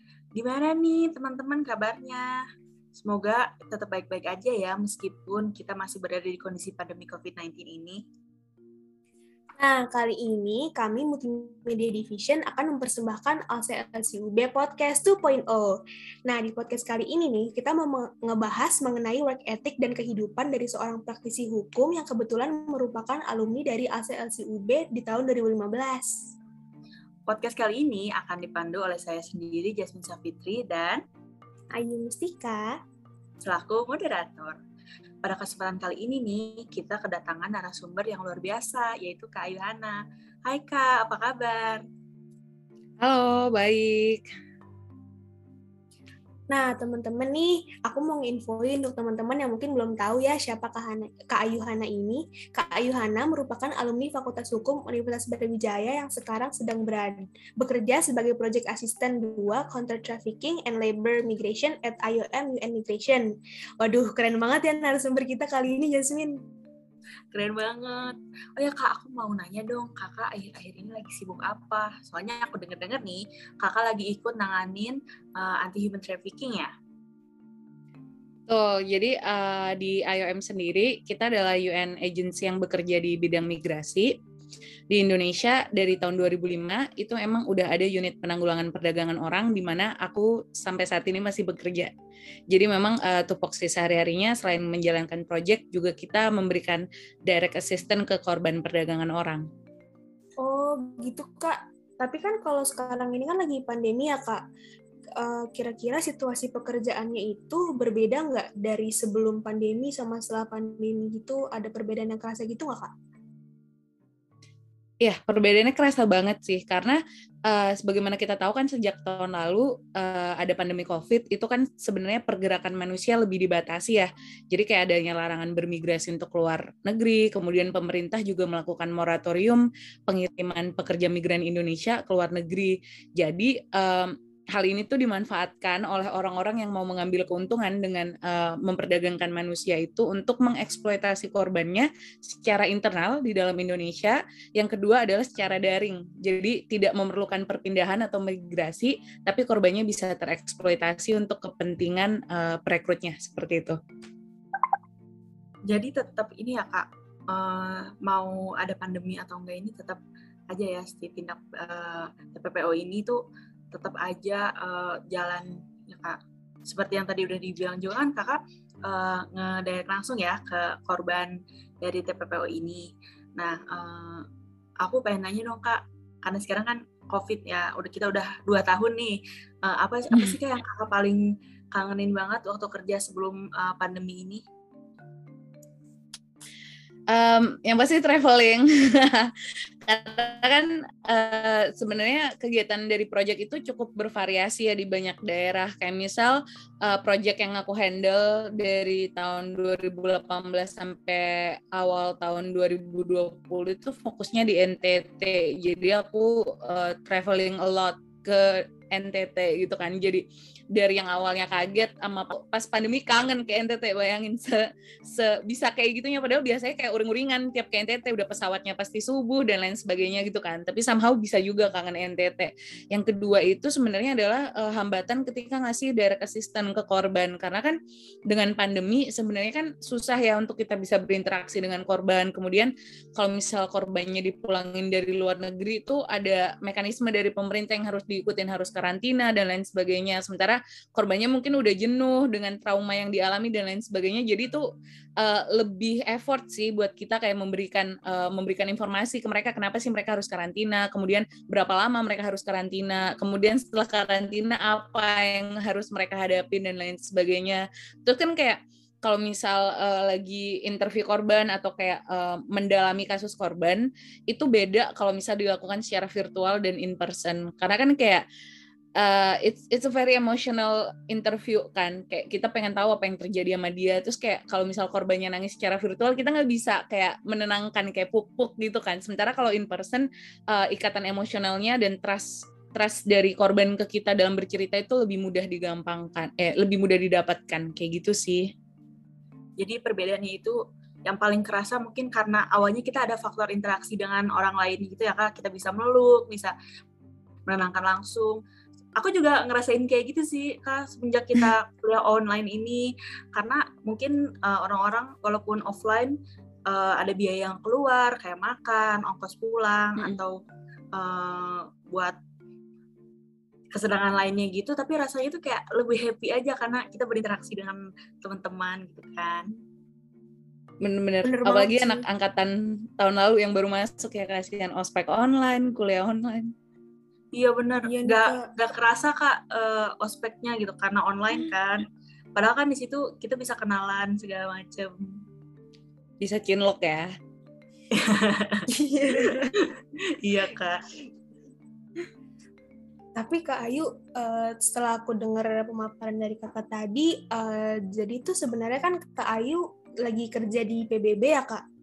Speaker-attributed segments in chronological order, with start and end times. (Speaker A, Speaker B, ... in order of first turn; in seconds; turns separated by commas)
Speaker A: 0.3-2.4, Speaker A: 2.9-8.0, Speaker B: 9.6-26.3, Speaker A: 27.3-31.0, Speaker B: 31.7-32.8, Speaker A: 33.4-34.6, Speaker A: 35.2-41.8, Speaker C: 43.0-44.2, Speaker B: 46.5-66.4, Speaker A: 67.3-76.7, Speaker C: 78.5-84.2, Speaker C: 84.9-91.9, Speaker C: 92.5-99.5, Speaker B: 100.4-104.4, Speaker B: 105.2-112.9, Speaker C: 115.0-153.8, Speaker A: 155.7-163.2, Speaker A: 163.7-174.3, Speaker A: 174.8-184.4, Speaker C: 187.1-244.7, Speaker C: 245.2-268.2, Speaker C: 269.0-288.5, Speaker A: 289.6-296.5, Speaker A: 297.4-298.4, Speaker A: 298.9-310.4, Speaker A: 310.9-312.2, Speaker A: 313.7-319.5, Speaker C: 320.8-326.5, Speaker B: 321.2-322.1, Speaker A: 327.3-335.2, Speaker B: 327.8-328.5, Speaker C: 336.2-337.1, Speaker A: 337.9-340.9, Speaker B: 338.7-339.6, Speaker B: 343.2-351.6